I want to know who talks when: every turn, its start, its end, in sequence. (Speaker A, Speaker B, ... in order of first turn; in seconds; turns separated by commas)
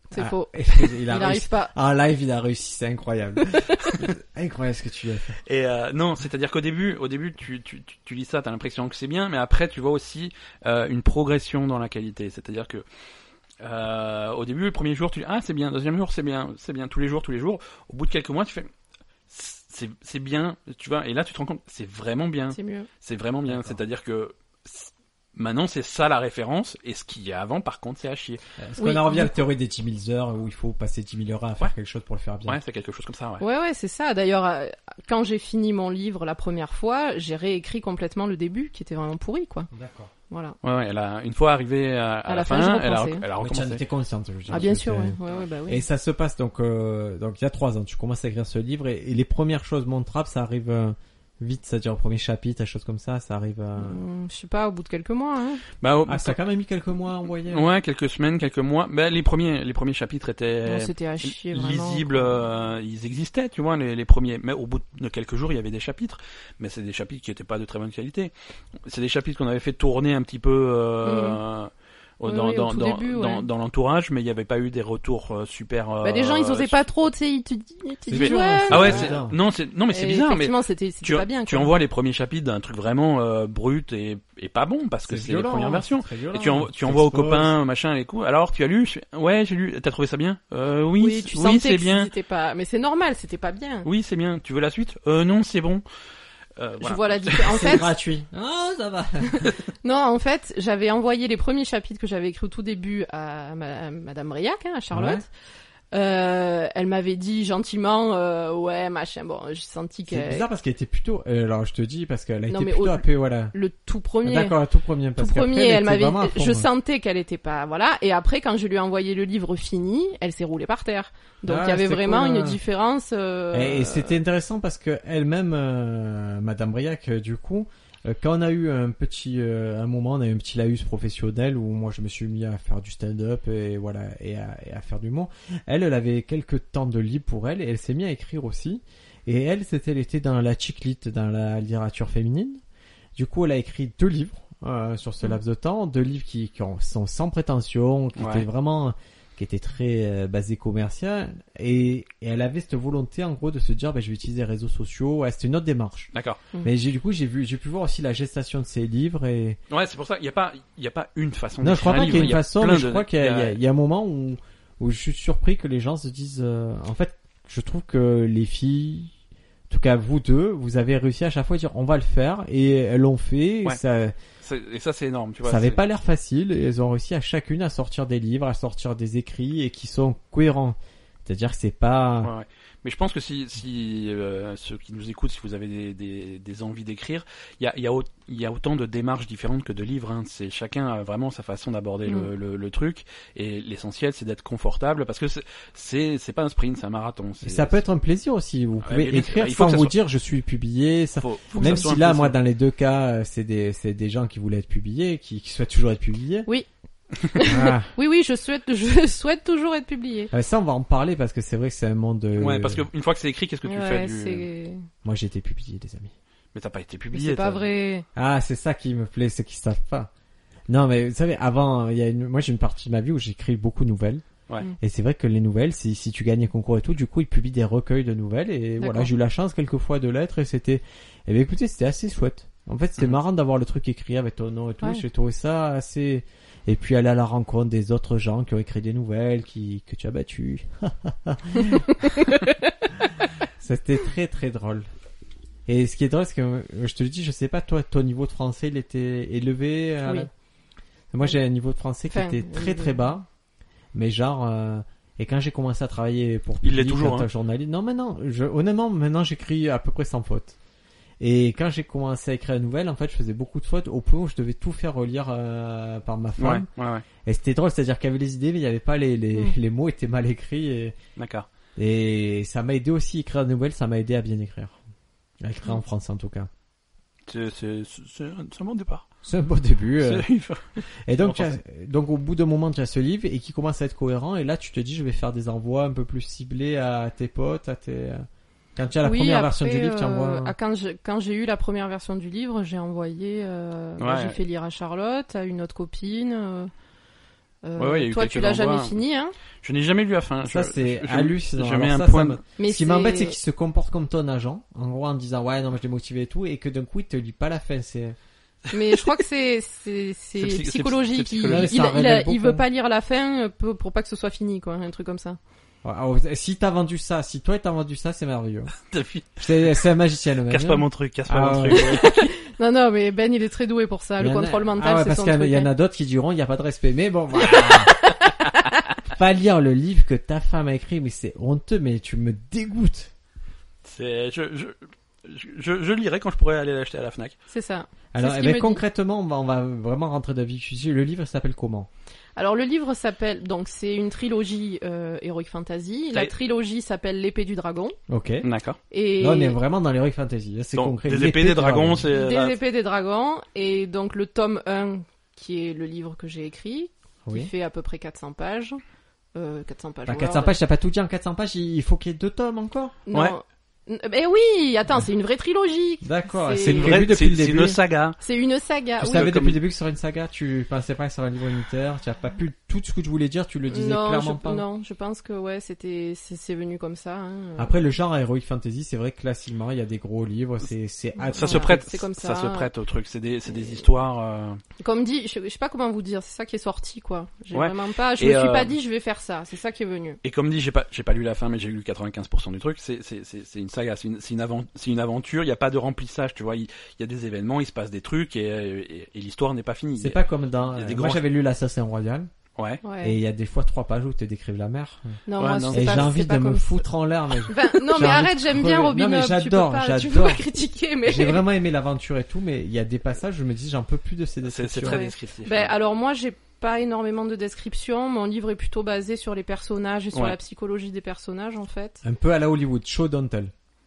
Speaker A: 0.1-1.7, Speaker B: 0.1-5.4, Speaker C: 5.5-12.8, Speaker C: 13.6-18.7, Speaker C: 19.3-28.4, Speaker A: 22.5-22.9, Speaker B: 23.5-23.8, Speaker B: 28.6-32.6, Speaker A: 28.8-29.4, Speaker C: 32.5-33.4, Speaker A: 33.4-39.7, Speaker B: 39.7-40.1, Speaker A: 40.3-40.6, Speaker C: 40.6-43.8, Speaker A: 42.3-43.2, Speaker B: 43.4-54.0, Speaker A: 44.5-45.8, Speaker A: 53.8-55.6, Speaker C: 55.8-56.4, Speaker B: 56.0-57.7, Speaker C: 57.5-68.3, Speaker A: 60.6-62.4, Speaker C: 68.8-76.8, Speaker A: 71.0-71.4, Speaker A: 72.2-73.5, Speaker A: 76.0-79.2, Speaker B: 78.1-79.4, Speaker C: 78.1-92.1, Speaker A: 79.9-81.7, Speaker B: 85.1-87.5, Speaker A: 91.0-93.9, Speaker C: 93.8-95.8, Speaker C: 96.6-97.7, Speaker A: 96.8-97.9, Speaker B: 97.5-99.5, Speaker A: 99.3-105.3, Speaker B: 104.9-105.2, Speaker A: 105.9-110.5, Speaker B: 110.1-113.5, Speaker A: 112.5-114.6, Speaker B: 114.2-116.7, Speaker A: 115.2-124.2, Speaker B: 121.5-122.6, Speaker B: 123.5-142.6, Speaker B: 143.2-156.1, Speaker C: 148.2-148.4, Speaker C: 156.1-156.4, Speaker B: 156.6-159.6, Speaker C: 159.7-163.6, Speaker B: 161.6-169.1, Speaker B: 169.7-174.2, Speaker C: 174.4-175.8, Speaker B: 175.4-182.3, Speaker C: 182.2-197.8, Speaker B: 197.4-206.5, Speaker C: 198.8-199.9, Speaker C: 201.2-202.4, Speaker A: 201.6-201.8, Speaker A: 207.2-210.3, Speaker B: 207.4-207.9, Speaker B: 210.3-212.8, Speaker C: 212.4-214.5, Speaker A: 213.6-214.8, Speaker B: 215.0-216.1, Speaker C: 216.5-217.6, Speaker A: 217.1-218.1, Speaker B: 218.2-220.1, Speaker B: 220.7-224.2, Speaker B: 224.8-241.9, Speaker A: 228.8-229.1, Speaker A: 241.5-242.8, Speaker B: 243.6-244.9, Speaker B: 245.7-250.3, Speaker A: 250.0-250.3, Speaker B: 251.1-253.3, Speaker A: 252.1-253.0, Speaker B: 253.9-260.6, Speaker C: 256.6-257.3, Speaker B: 261.2-266.7, Speaker C: 266.4-267.0, Speaker B: 267.2-271.0, Speaker C: 271.2-271.4, Speaker B: 271.8-274.8, Speaker B: 275.4-276.5, Speaker C: 277.3-279.1, Speaker B: 279.2-280.2, Speaker C: 280.0-280.6, Speaker B: 281.1-290.5, Speaker C: 281.2-281.5, Speaker A: 289.0-296.7, Speaker C: 294.0-294.4, Speaker A: 297.6-299.3, Speaker C: 297.8-299.0, Speaker C: 299.6-302.4, Speaker B: 300.4-308.1, Speaker A: 302.6-303.4, Speaker A: 308.7-315.4, Speaker C: 310.4-311.7, Speaker B: 311.5-312.6, Speaker B: 315.8-318.7, Speaker C: 318.9-319.4, Speaker B: 319.4-322.0, Speaker C: 320.5-322.3, Speaker A: 321.7-325.7, Speaker B: 324.2-327.9, Speaker A: 327.4-328.8, Speaker B: 329.0-333.1, Speaker C: 333.8-337.4, Speaker A: 337.5-338.8, Speaker B: 338.1-341.9, Speaker A: 342.4-347.9, Speaker B: 348.1-348.5, Speaker C: 348.4-348.8, Speaker A: 348.9-349.6, Speaker B: 349.2-352.1, Speaker C: 350.7-352.6, Speaker A: 352.1-358.8, Speaker B: 357.2-357.5, Speaker A: 359.3-360.6, Speaker B: 360.1-363.0, Speaker A: 363.1-367.1, Speaker B: 366.0-367.8, Speaker C: 366.6-368.2, Speaker A: 368.2-369.3, Speaker C: 369.0-369.6, Speaker B: 369.0-374.6, Speaker A: 373.7-377.8, Speaker B: 377.6-381.8, Speaker A: 381.2-382.7, Speaker C: 381.3-384.6, Speaker A: 384.8-390.2, Speaker C: 387.5-388.7, Speaker C: 390.2-400.2, Speaker B: 400.0-402.3, Speaker C: 400.7-401.2, Speaker C: 402.6-402.8, Speaker A: 402.8-403.2, Speaker B: 403.0-405.2, Speaker A: 405.3-406.8, Speaker C: 405.4-406.1, Speaker B: 405.7-410.4, Speaker A: 407.4-411.4, Speaker B: 411.0-415.0, Speaker C: 414.4-415.7, Speaker A: 414.8-422.0, Speaker B: 422.0-423.5